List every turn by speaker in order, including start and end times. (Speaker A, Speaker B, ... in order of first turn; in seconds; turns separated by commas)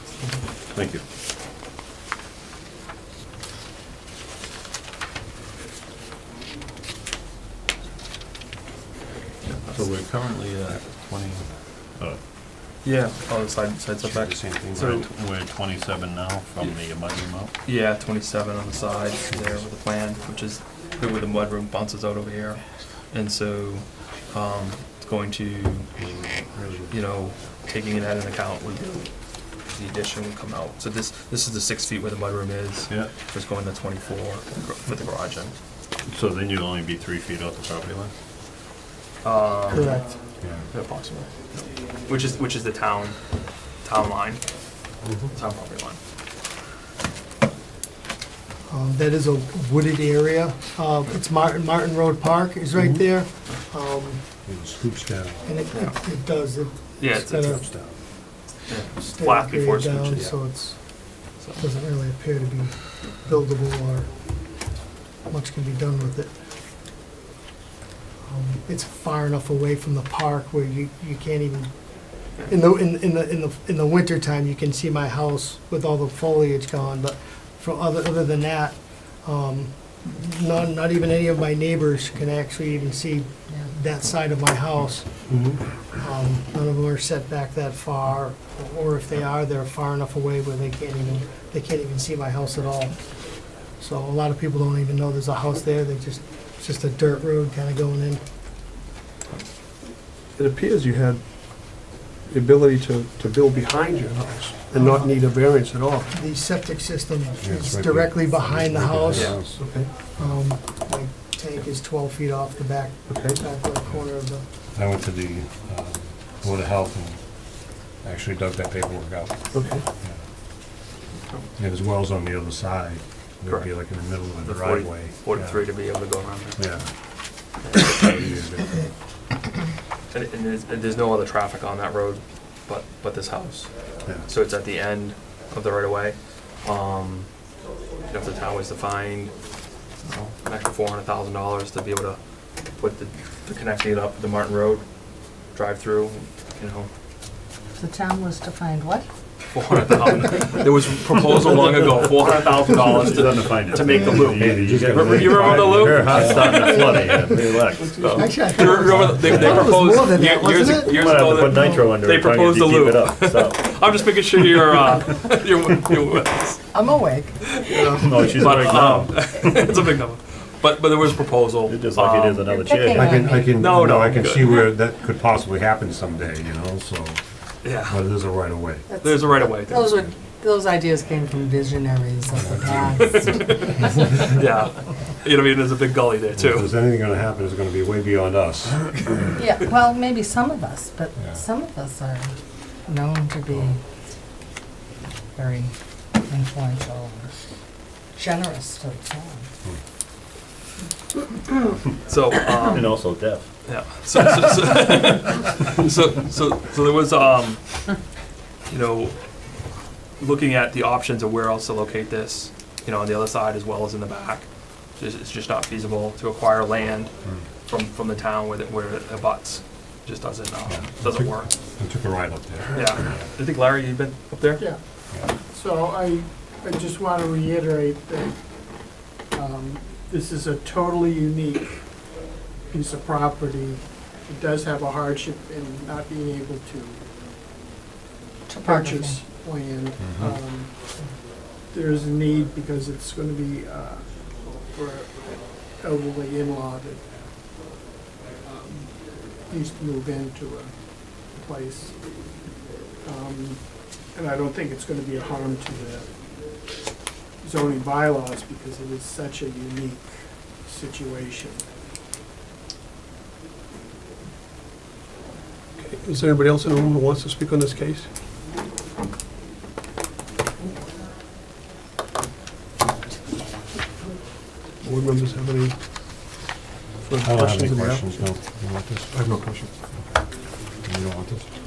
Speaker A: 0.7-1.0, Speaker B: 9.4-10.0, Speaker A: 9.7-12.2, Speaker B: 12.8-15.1, Speaker C: 14.2-14.5, Speaker A: 14.2-17.5, Speaker B: 17.6-26.0, Speaker C: 26.0-26.9, Speaker B: 26.8-29.1, Speaker B: 29.6-35.5, Speaker A: 36.1-38.1, Speaker B: 39.2-43.2, Speaker D: 39.7-40.2, Speaker B: 43.8-44.4, Speaker C: 45.0-45.3, Speaker B: 45.3-46.0, Speaker D: 48.7-54.2, Speaker C: 52.8-53.0, Speaker C: 54.5-55.5, Speaker D: 55.4-57.9, Speaker B: 57.0-57.7, Speaker C: 57.6-58.0, Speaker B: 58.7-60.7, Speaker D: 58.9-64.3, Speaker D: 65.3-66.3, Speaker D: 68.3-85.2, Speaker E: 85.3-85.6, Speaker D: 85.9-98.2, Speaker E: 100.4-106.1, Speaker D: 104.7-105.1, Speaker D: 106.1-109.5, Speaker C: 107.4-110.5, Speaker E: 109.2-109.9, Speaker D: 110.1-114.4, Speaker E: 113.1-113.4, Speaker C: 114.8-117.2, Speaker C: 118.0-119.4, Speaker E: 119.5-119.8, Speaker C: 121.6-125.7, Speaker B: 123.5-126.8, Speaker C: 126.6-126.9, Speaker B: 127.6-128.1, Speaker C: 127.7-128.9, Speaker B: 130.1-137.3, Speaker B: 138.1-139.4, Speaker B: 140.0-142.2, Speaker B: 142.8-144.8, Speaker B: 145.5-146.9, Speaker F: 147.8-149.1, Speaker B: 149.5-166.8, Speaker A: 152.1-158.3, Speaker D: 153.9-154.2, Speaker C: 154.2-156.8, Speaker F: 158.2-159.5, Speaker D: 158.2-161.0, Speaker A: 158.9-160.0, Speaker C: 158.9-159.8, Speaker A: 160.6-163.7, Speaker F: 166.7-167.4, Speaker B: 167.4-172.6, Speaker A: 167.7-169.7, Speaker A: 171.7-173.3, Speaker F: 172.4-173.7, Speaker C: 172.9-178.8, Speaker B: 173.6-174.8, Speaker B: 177.6-178.0, Speaker F: 178.9-183.9, Speaker B: 179.0-180.0, Speaker C: 182.4-183.0, Speaker B: 182.8-186.7, Speaker C: 186.3-189.3, Speaker F: 189.4-192.3, Speaker F: 192.8-193.8, Speaker F: 195.3-195.7, Speaker F: 196.2-197.3, Speaker F: 198.2-199.5, Speaker B: 202.0-207.8, Speaker A: 202.6-203.5, Speaker B: 208.7-209.2, Speaker B: 210.2-221.5, Speaker C: 220.7-223.2, Speaker B: 222.7-224.7, Speaker G: 225.4-232.1, Speaker G: 232.7-237.0, Speaker F: 238.5-239.2, Speaker G: 238.6-240.8, Speaker C: 240.0-240.3, Speaker G: 241.7-247.0, Speaker G: 248.4-252.0, Speaker G: 253.0-256.2, Speaker G: 257.4-261.6, Speaker E: 265.8-268.1, Speaker E: 274.8-275.8, Speaker E: 277.0-278.3, Speaker C: 277.2-279.2, Speaker E: 279.1-279.7, Speaker C: 280.7-281.5